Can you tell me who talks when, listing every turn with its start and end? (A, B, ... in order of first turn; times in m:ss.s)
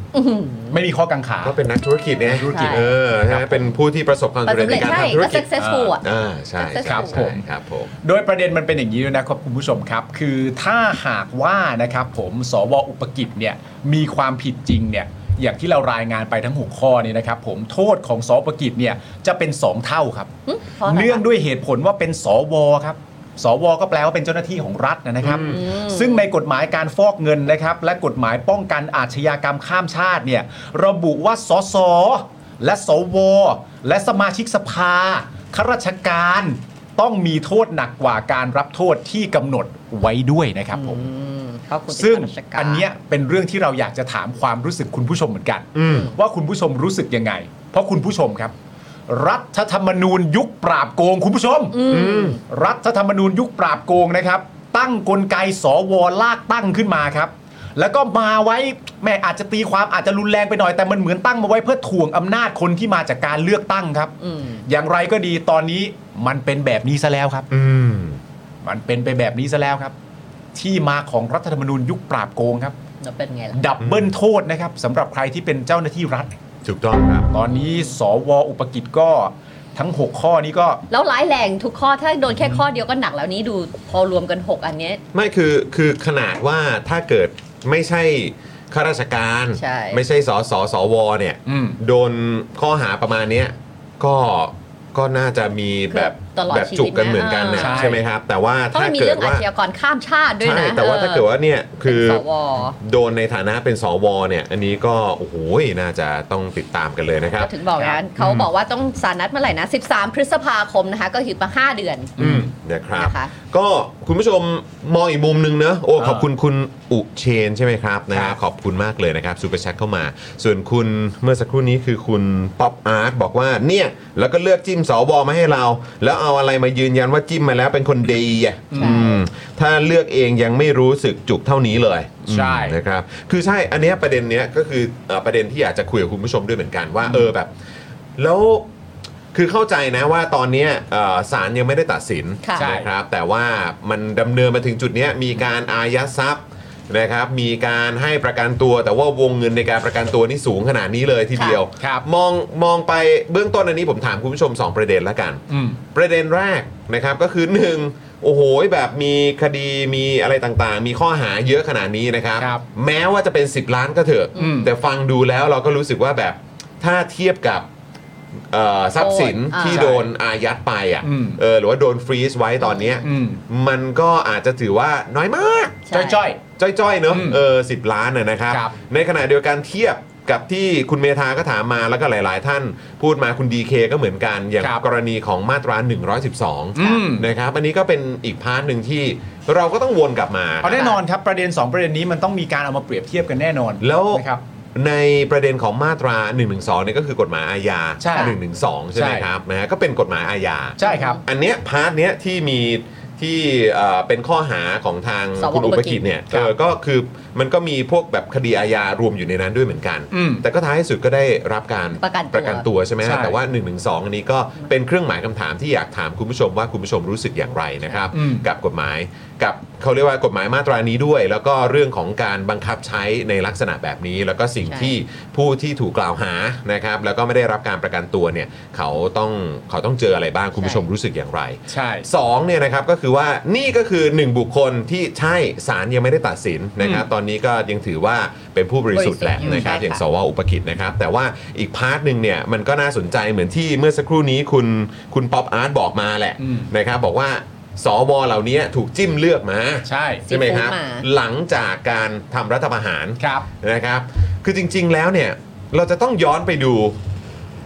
0:00.1-0:00.8 A
0:00.7-0:01.6 B
0:01.4-0:07.9 C
0:02.2-0:03.6 B
0:02.5-0:02.8 A
0:04.4-0:06.0 A
0:05.6-0:05.9 B
0:06.6-0:07.2 A
0:06.8-0:07.4 B
0:08.0-0:20.3 B
0:20.4-0:21.2 A
0:20.8-0:41.1 B
0:25.2-0:25.5 C
0:25.3-0:26.2 A
0:40.7-0:42.8 A
0:41.9-0:48.5 B
0:45.7-0:46.1 C
0:49.1-0:51.9 B
0:51.7-0:52.4 A
0:51.9-0:52.4 C
0:52.5-1:04.1 B
1:04.2-1:04.6 A
1:04.6-1:07.5 B
1:07.5-1:08.2 C
1:08.6-1:09.9 B
1:10.5-1:12.8 B
1:13.0-1:13.6 A
1:13.5-1:16.3 B
1:13.8-1:14.1 C
1:16.6-1:17.3 C
1:17.3-1:20.8 B
1:17.5-1:17.9 A
1:20.9-1:25.0 A
1:25.1-1:39.4 C
1:29.6-1:30.0 A
1:31.4-1:31.8 B
1:35.9-1:38.0 A
1:37.5-1:38.0 B
1:38.7-1:41.3 A
1:40.4-1:42.2 C
1:41.8-1:42.8 A
1:42.8-1:47.5 C
1:47.4-1:52.2 A
1:48.2-1:48.5 C
1:52.2-1:52.5 B
1:52.2-2:17.5 C
1:53.0-1:53.3 A
1:56.0-1:56.3 B
1:58.1-1:58.4 B
2:08.7-2:09.1 B
2:08.8-2:09.2 A
2:12.2-2:12.8 B
2:18.2-2:18.7 C
2:19.3-2:47.7 C
2:22.6-2:22.9 B
2:31.8-2:32.0 B
2:35.5-2:35.8 B
2:42.4-2:42.6 B
2:44.4-2:44.7 B
2:48.5-2:55.9 C
2:49.0-2:49.9 A
2:49.7-2:50.0 B
2:51.0-2:51.4 B
2:52.6-2:53.0 A
2:53.0-2:53.4 B
2:55.8-2:56.2 A
2:55.9-2:56.4 B
2:56.6-3:10.9 C
2:57.1-2:57.4 B
2:58.5-2:58.8 B
3:06.8-3:07.3 B
3:10.6-3:14.4 B
3:10.7-3:11.0 A
3:13.8-4:17.0 C
3:18.0-3:18.4 B
3:18.9-3:19.3 B
3:20.8-3:21.2 B
3:20.8-3:21.2 A
3:25.4-3:26.0 A
3:30.1-3:30.4 B
3:32.0-3:32.6 A
3:33.0-3:33.4 B
3:38.1-3:38.4 B
3:44.7-3:45.0 A
3:50.6-3:50.8 A
3:51.7-3:52.1 B
3:56.8-3:57.0 B
3:58.9-4:00.0 A
3:59.4-3:59.7 B
4:06.4-4:06.7 B
4:09.8-4:10.2 B
4:10.3-4:11.0 A
4:13.2-4:13.5 B